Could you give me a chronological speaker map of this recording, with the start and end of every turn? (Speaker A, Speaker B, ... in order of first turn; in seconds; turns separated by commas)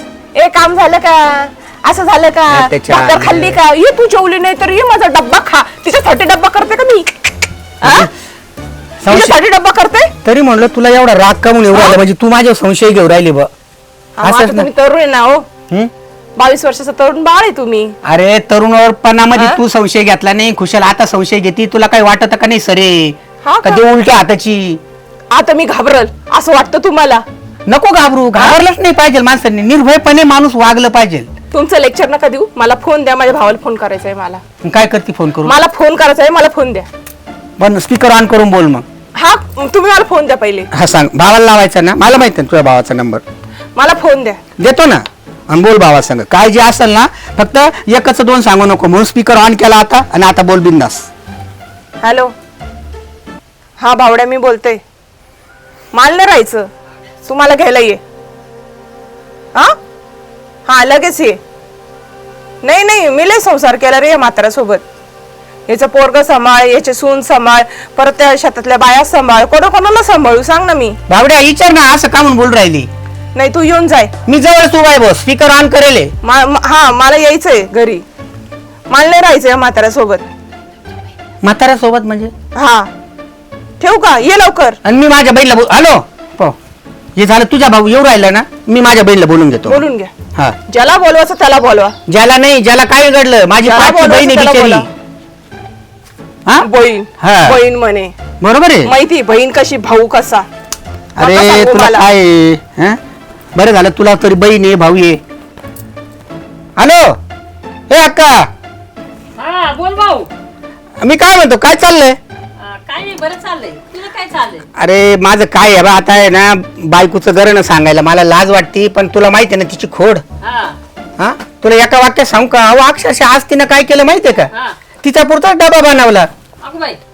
Speaker A: 0.3-8.1, Speaker B: 2.5-3.6, Speaker B: 7.8-8.1, Speaker B: 9.0-9.4, Speaker A: 9.1-10.1, Speaker B: 10.2-13.5, Speaker A: 14.2-15.4, Speaker B: 14.2-14.7, Speaker A: 16.4-17.9, Speaker B: 18.0-24.8, Speaker A: 19.3-19.6, Speaker A: 23.4-23.8, Speaker A: 25.3-27.2, Speaker B: 27.7-31.3, Speaker A: 31.5-34.4, Speaker B: 34.6-35.6, Speaker A: 35.4-36.9, Speaker B: 37.6-38.8, Speaker A: 39.1-40.7, Speaker B: 40.7-43.2, Speaker A: 43.8-44.4, Speaker B: 44.6-51.1, Speaker A: 52.0-52.3, Speaker A: 53.8-54.8, Speaker A: 55.9-56.7, Speaker A: 57.2-58.0, Speaker A: 60.6-61.4, Speaker A: 62.6-64.8, Speaker A: 65.7-71.0, Speaker B: 71.1-72.9, Speaker A: 73.3-74.1, Speaker B: 74.3-76.1, Speaker A: 76.2-78.0, Speaker A: 78.9-80.2, Speaker B: 81.4-82.3, Speaker A: 82.5-82.9, Speaker A: 83.8-84.8, Speaker B: 84.8-86.6, Speaker B: 87.2-89.8, Speaker A: 89.6-90.1, Speaker A: 90.7-91.9, Speaker B: 92.1-94.9, Speaker A: 93.6-94.9, Speaker A: 96.6-98.1, Speaker B: 97.2-97.6, Speaker B: 98.4-98.9, Speaker A: 98.8-100.5, Speaker B: 101.2-103.0, Speaker A: 101.2-102.1, Speaker B: 103.5-105.2, Speaker B: 106.8-107.2, Speaker B: 107.9-108.5, Speaker C: 109.4-110.3, Speaker B: 111.0-112.2, Speaker C: 112.6-114.6, Speaker B: 114.8-120.2, Speaker C: 120.4-120.8, Speaker B: 121.2-124.5, Speaker B: 125.0-126.3, Speaker C: 126.6-127.0